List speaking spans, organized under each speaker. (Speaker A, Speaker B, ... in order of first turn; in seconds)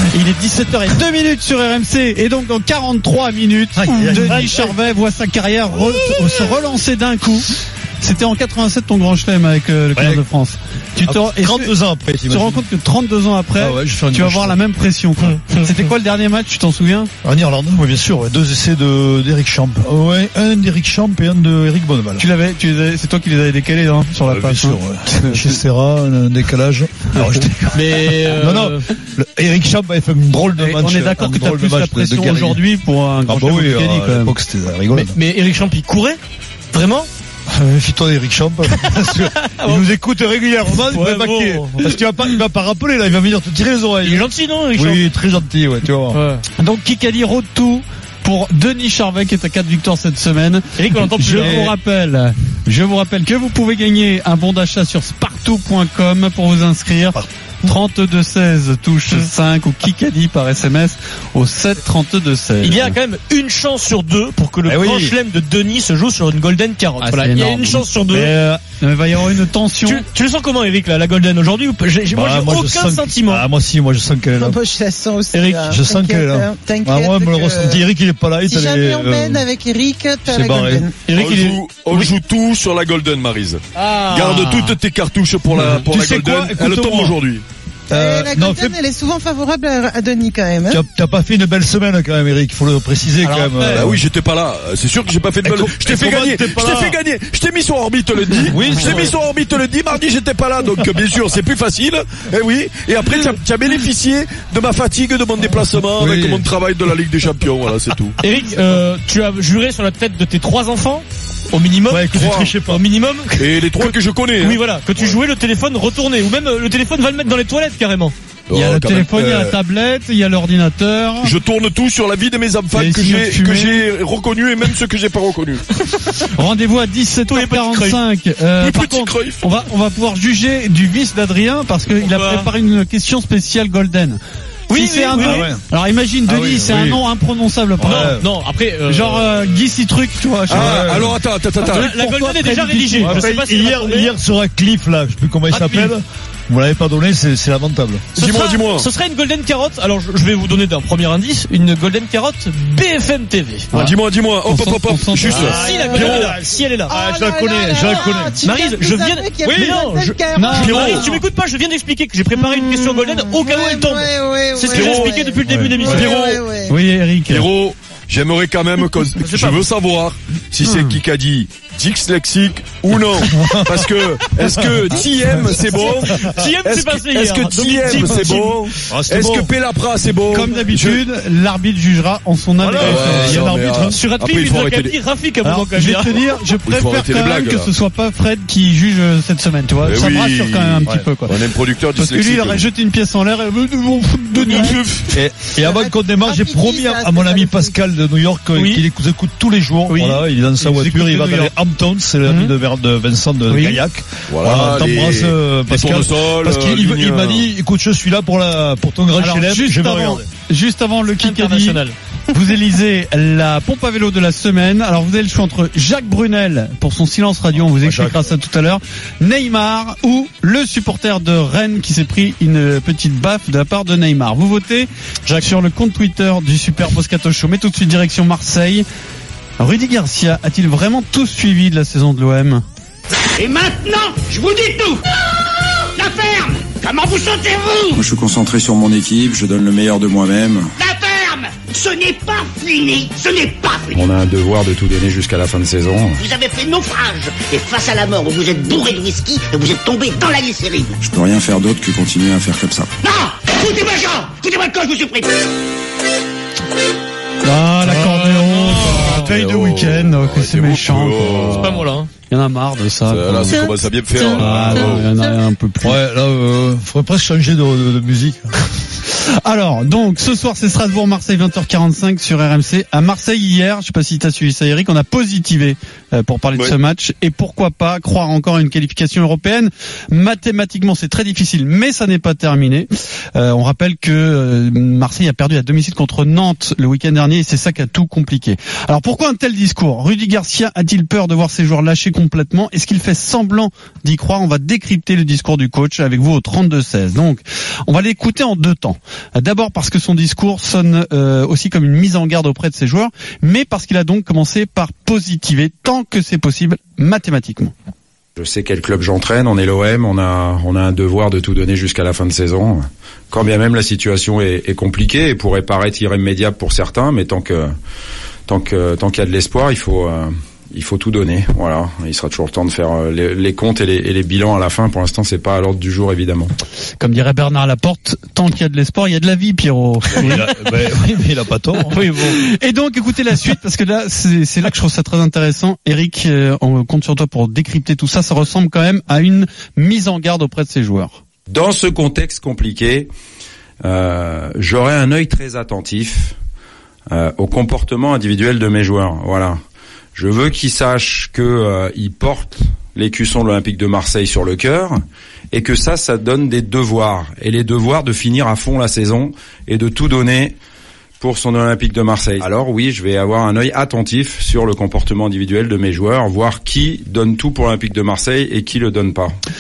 Speaker A: 0.1-11.7, 12.3-17.1, 22.2-25.6, 30.6-34.4, 46.6-63.0, 67.0-67.9, 68.8-70.0, 93.2-93.9, 118.5-121.3, 122.7-123.9, 126.3-138.2, 138.9-143.2, 153.7-155.5, 160.3-161.1, 166.7-167.5, 170.6-171.0, 180.3-183.5, 185.5-191.3, 192.0-194.8, 200.7-201.2, 209.2-211.8, 212.3-228.9, 229.6-232.6, 257.4-263.7, 264.2-266.0, 269.4-307.7, 327.0-330.4, 332.3-341.2
Speaker B: 3.8-4.8, 6.1-6.4, 9.9-10.2, 11.1-12.6, 13.6-14.6, 17.2-22.2, 24.3-32.6, 33.3-35.1, 37.5-46.2, 51.4-51.7, 64.7-65.1, 68.1-68.6, 72.1-74.6, 75.7-79.5, 80.3-80.9, 85.6-87.2, 87.9-88.8, 90.7-94.0, 95.4-97.0, 98.5-99.1, 106.0-106.5, 111.9-112.8, 135.2-135.6, 136.3-137.0, 137.8-138.3, 140.3-141.2, 143.0-148.1, 155.2-158.4, 159.5-159.8, 165.5-165.9, 173.3-176.4, 178.9-179.5, 182.6-184.0, 195.1-210.3, 217.7-218.3, 264.4-264.9, 265.8-268.5, 330.2-332.0
Speaker C: 15.2-15.7, 27.7-28.9, 34.9-36.2, 36.7-37.1, 38.8-39.9, 40.9-42.0, 44.0-45.0, 46.1-46.4, 50.8-51.7, 62.6-68.3, 69.8-73.5, 75.3-75.7, 81.1-82.1, 83.8-84.8, 108.2-118.1, 125.9-126.2, 127.3-128.0, 132.0-132.5, 134.7-135.5, 137.8-139.5, 141.6-144.1, 145.5-145.9, 148.2-153.7, 155.2-156.9, 157.8-166.4, 169.2-169.7, 175.8-178.7, 183.9-186.2, 194.4-195.0, 198.6-198.8, 199.9-200.2, 200.8-201.5, 202.3-202.5, 203.5-203.8, 211.2-212.0, 257.9-259.2, 261.6-262.1, 331.9-332.4
Speaker D: 74.4-77.8, 78.5-81.0, 87.9-90.8, 155.6-161.2, 162.3-166.8, 195.6-197.8
Speaker E: 81.1-87.4, 93.7-108.2, 112.1-112.5, 113.4-114.6, 118.5-119.6, 121.2-125.6, 128.6-129.4, 140.5-141.9, 148.2-148.9, 153.7-155.7, 160.6-161.0, 164.7-165.1, 165.9-166.2, 167.3-181.0, 182.8-185.0, 186.7-187.7, 189.8-192.7, 204.3-207.5, 259.1-261.9, 263.1-265.1
Speaker F: 233.3-235.0, 236.0-238.0, 240.8-244.1, 246.2-250.9, 253.0-255.3
Speaker G: 237.9-240.7, 251.0-252.9
Speaker H: 243.9-246.2, 308.4-317.7, 318.5-326.5, 341.5-343.1, 343.8-346.4, 347.1-349.6, 350.1-355.0, 355.5-360.6, 361.2-369.4